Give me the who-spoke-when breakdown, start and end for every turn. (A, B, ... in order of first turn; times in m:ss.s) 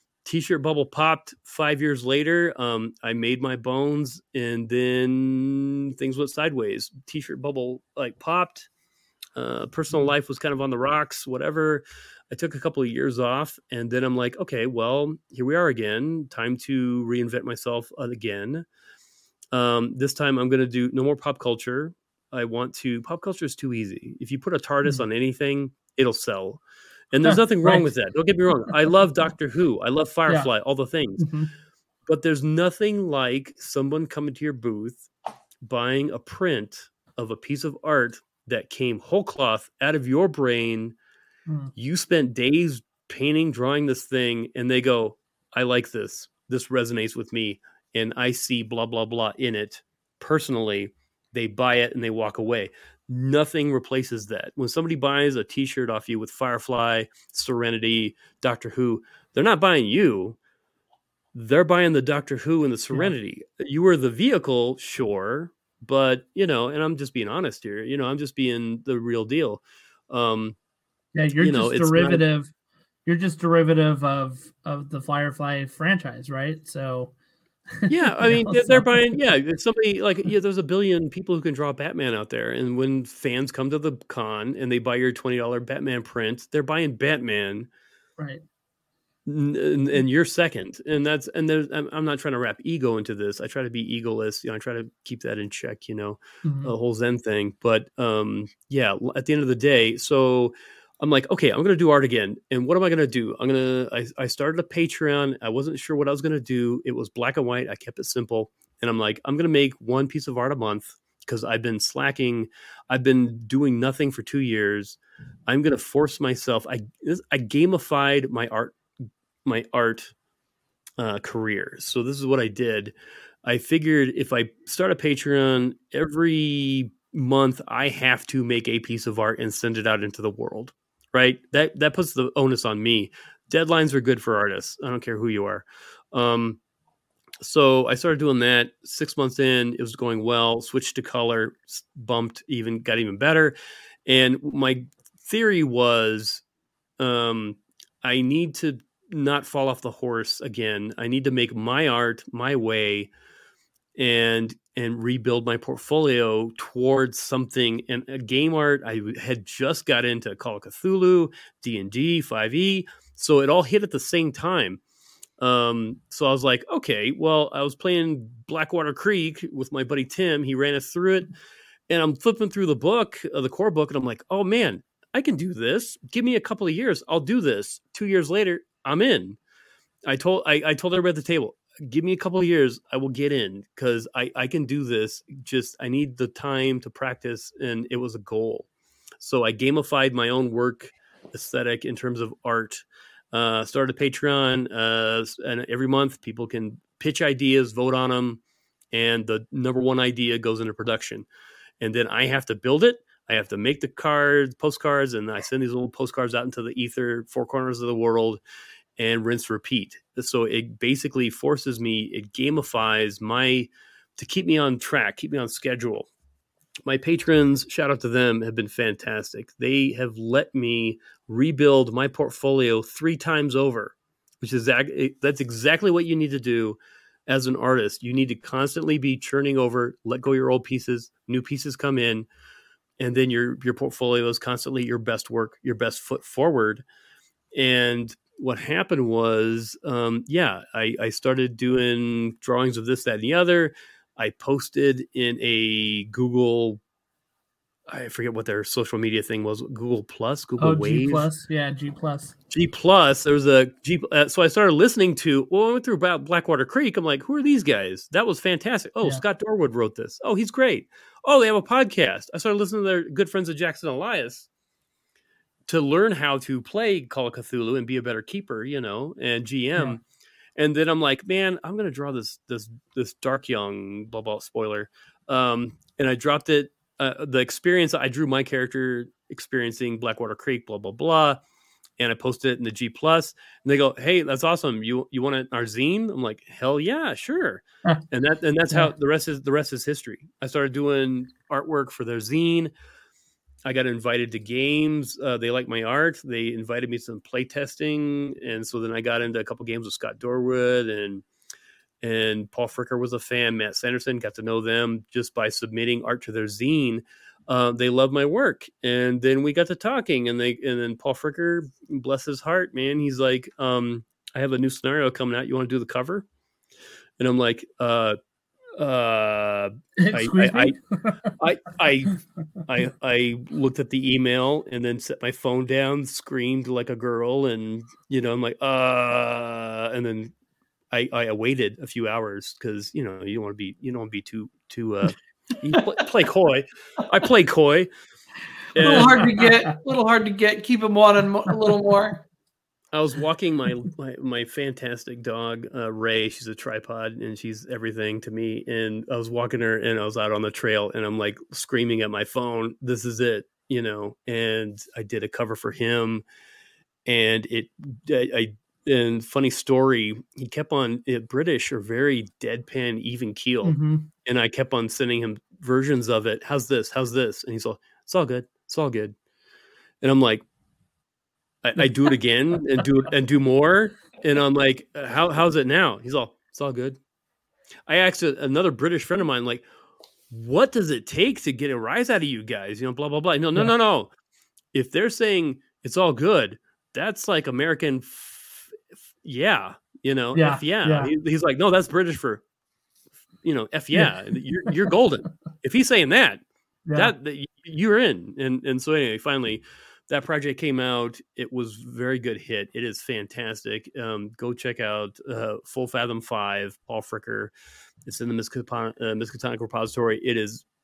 0:00.2-0:08.7 A
0:09.4-0:18.6 A
0:19.5-0:31.2 A
0:27.2-0:27.9 B
0:31.2-0:31.5 B
0:32.0-0:35.1 A
0:35.6-0:41.0 A
0:41.7-1:00.4 A
1:01.3-1:10.6 A
1:11.1-1:12.5 B
1:11.4-1:12.2 A
1:13.0-1:17.1 B
1:17.8-1:18.9 B
1:17.9-1:27.7 A
1:29.2-1:58.8 A
1:36.4-1:36.7 B
1:59.4-2:00.1 A
2:01.0-2:16.6 A
2:17.4-2:23.5 A
2:24.0-2:26.4 A
2:27.0-2:33.1 A
2:34.0-2:44.8 A
2:45.4-2:51.3 A
2:51.9-2:59.4 A
3:00.1-3:08.7 A
3:09.2-3:18.4 A
3:18.9-3:21.3 A
3:21.8-3:28.4 A
3:29.0-3:36.1 A
3:36.8-3:52.3 A
3:53.0-3:56.8 A
3:57.5-4:06.8 A
4:07.9-4:11.3 A
4:10.6-4:12.3 B
4:12.5-4:24.5 A
4:25.7-4:30.0 A
4:30.6-4:41.4 A
4:42.0-4:52.7 A
4:53.6-5:01.2 A
5:02.0-5:16.2 A
5:17.2-5:18.2 A
5:18.8-5:20.8 A
5:20.0-5:21.3 B
5:21.4-5:22.1 A
5:22.6-5:30.3 A
5:30.9-5:37.9 A
5:38.7-5:39.2 A
5:38.8-5:42.2 C
5:38.8-5:39.4 B
5:42.9-5:56.2 A
5:57.0-6:09.1 A
6:03.6-6:04.1 B
6:10.0-6:10.4 A
6:11.6-6:17.0 A
6:17.9-6:19.6 A
6:20.3-6:24.1 A
6:24.7-6:32.4 A
6:30.3-6:31.1 B
6:33.4-6:36.4 A
6:36.9-6:37.1 B
6:36.9-6:47.5 A
6:48.0-6:50.6 A